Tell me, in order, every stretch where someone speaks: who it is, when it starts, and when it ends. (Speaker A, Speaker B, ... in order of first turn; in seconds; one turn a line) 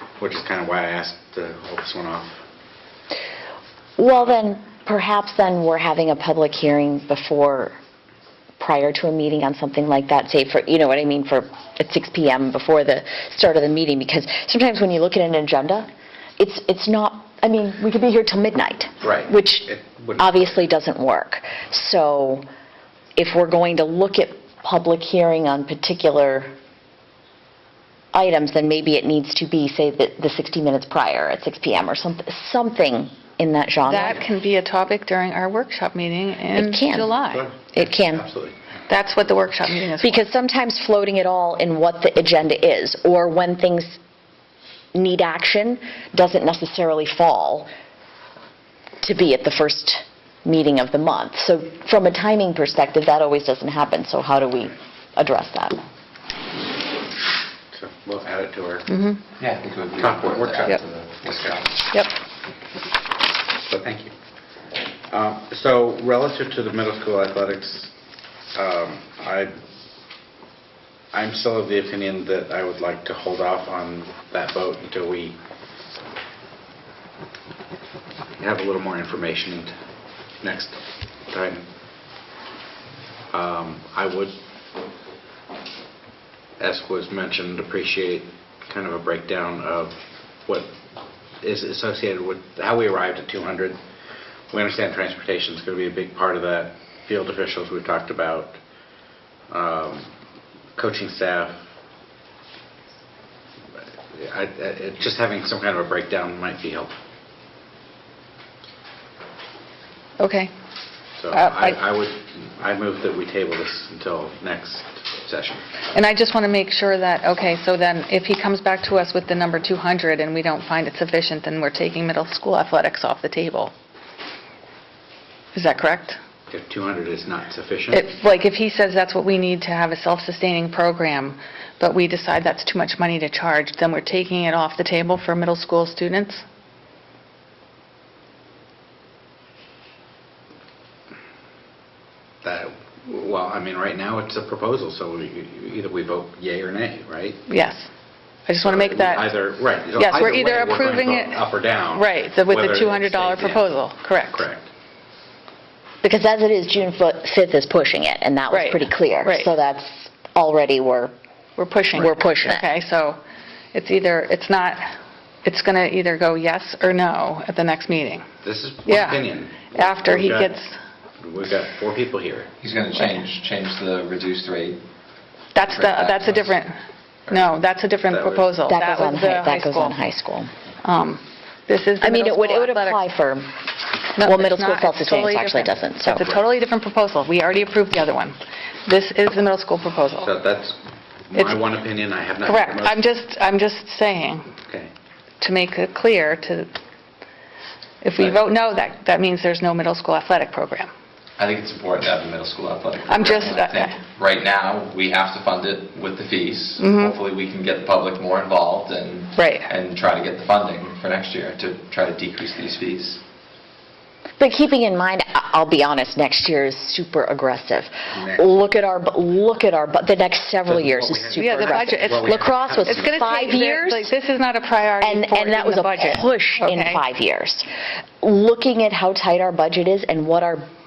Speaker A: 0.2-2.5
Speaker B: 4.0-7.8
Speaker B: 8.6-22.5
Speaker A: 19.0-20.6
Speaker B: 23.2-26.5
Speaker B: 28.1-34.2
Speaker C: 33.9-37.5
Speaker B: 36.5-37.2
Speaker A: 37.3-38.6
Speaker B: 37.7-38.2
Speaker C: 38.9-40.3
Speaker B: 40.0-44.0
Speaker B: 44.9-47.7
Speaker B: 49.0-55.8
Speaker A: 57.7-59.0
Speaker C: 58.9-59.2
Speaker D: 59.4-61.9
Speaker A: 60.0-61.6
Speaker A: 63.6-64.1
Speaker A: 65.1-67.9
Speaker A: 68.5-69.5
Speaker A: 71.1-75.4
Speaker A: 78.4-79.8
Speaker A: 80.4-81.7
Speaker A: 83.3-84.4
Speaker A: 86.6-90.7
Speaker A: 91.4-93.8
Speaker A: 94.5-98.6
Speaker A: 99.5-100.1
Speaker A: 100.8-101.7
Speaker A: 104.1-106.9
Speaker C: 110.2-110.5
Speaker A: 111.2-115.7
Speaker C: 111.3-111.8
Speaker C: 115.9-123.7
Speaker C: 125.5-126.2
Speaker A: 126.5-128.1
Speaker C: 127.9-136.4
Speaker A: 142.4-147.4
Speaker C: 147.5-147.9
Speaker C: 148.5-149.3
Speaker A: 148.6-154.7
Speaker C: 150.0-151.4
Speaker C: 151.9-154.4
Speaker B: 156.0-161.1
Speaker C: 158.5-159.5
Speaker C: 161.6-163.2
Speaker B: 161.9-162.7
Speaker C: 163.7-168.2
Speaker A: 168.4-170.6
Speaker C: 168.9-169.2
Speaker C: 169.7-170.8
Speaker A: 171.2-172.5
Speaker D: 172.6-174.8
Speaker D: 175.6-176.6
Speaker C: 175.6-176.7
Speaker C: 177.3-180.0
Speaker A: 178.1-178.6
Speaker B: 178.7-180.5
Speaker C: 180.8-183.0
Speaker B: 182.0-183.5
Speaker C: 184.2-190.3
Speaker B: 184.2-186.4
Speaker A: 190.2-193.0
Speaker C: 191.4-191.6
Speaker C: 192.4-194.5
Speaker C: 195.4-196.7
Speaker C: 198.0-200.9
Speaker D: 201.4-213.2
Speaker C: 203.1-204.0
Speaker C: 206.8-207.2
Speaker C: 209.4-209.7
Speaker B: 214.4-224.1
Speaker A: 218.1-218.7
Speaker A: 220.7-223.4
Speaker C: 221.3-227.0
Speaker B: 225.0-227.7
Speaker B: 228.2-230.7